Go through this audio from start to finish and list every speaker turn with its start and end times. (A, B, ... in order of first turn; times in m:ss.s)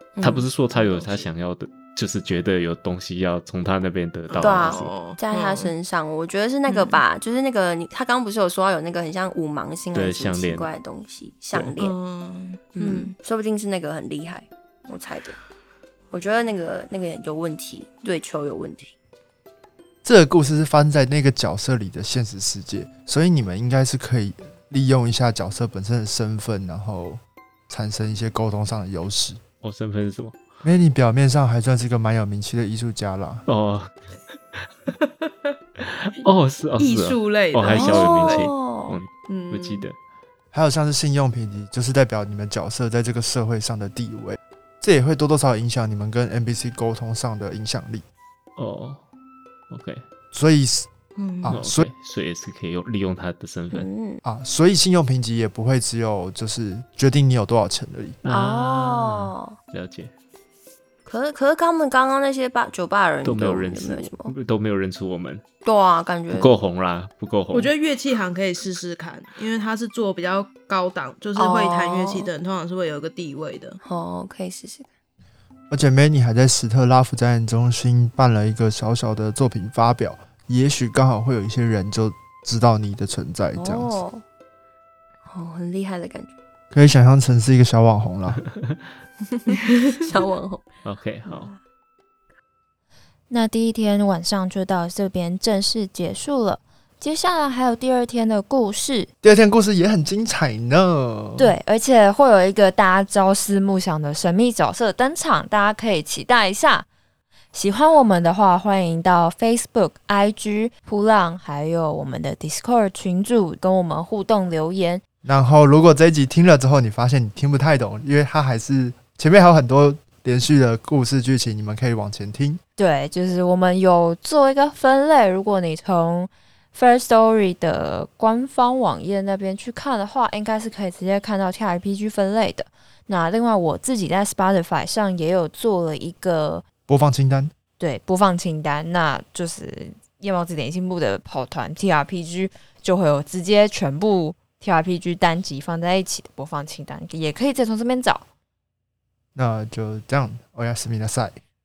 0:00.2-0:00.5 A
0:00.2-0:04.9 B
0:00.7-0:01.3 C
0:04.3-0:05.7 C
0:04.4-0:11.9 A
0:06.7-0:07.0 C
0:09.9-0:10.7 B
0:11.7-0:13.1 C
0:12.7-0:15.4 A
0:16.1-0:18.9 A
0:20.0-0:29.4 D
0:29.6-0:30.4 B
0:30.6-0:33.4 D
0:33.5-0:33.9 B
0:35.0-0:35.5 C
0:35.8-0:40.0 B
0:36.8-0:38.5 C
0:37.7-0:39.0 A
0:39.3-0:39.9 C
0:40.5-0:48.0 D
0:48.6-0:49.0 B
0:49.7-0:50.0 B
0:50.3-0:50.9 D
0:51.2-0:51.6 C
0:51.4-0:51.9 D
0:51.5-0:53.9 B
0:53.7-0:54.2 A
0:54.2-0:58.2 D
0:58.2-1:00.1 B
0:58.3-0:59.5 A
1:01.0-1:04.3 A
1:03.2-1:05.4 B
1:05.6-1:06.5 A
1:06.3-1:07.7 B
1:07.5-1:13.8 C
1:11.4-1:12.3 A
1:13.8-1:14.9 A
1:15.7-1:23.9 D
1:23.5-1:24.2 A
1:25.3-1:26.3 A
1:26.7-1:28.4 D
1:29.4-1:30.6 A
1:30.8-1:31.5 B
1:31.2-1:31.6 A
1:33.3-1:39.1 E
1:39.2-1:41.5 D
1:41.4-1:46.8 E
1:47.5-1:55.0 E
1:55.2-2:02.6 D
2:02.8-2:16.6 E
2:16.9-2:17.5 D
2:17.8-2:28.2 E
2:29.3-2:31.4 D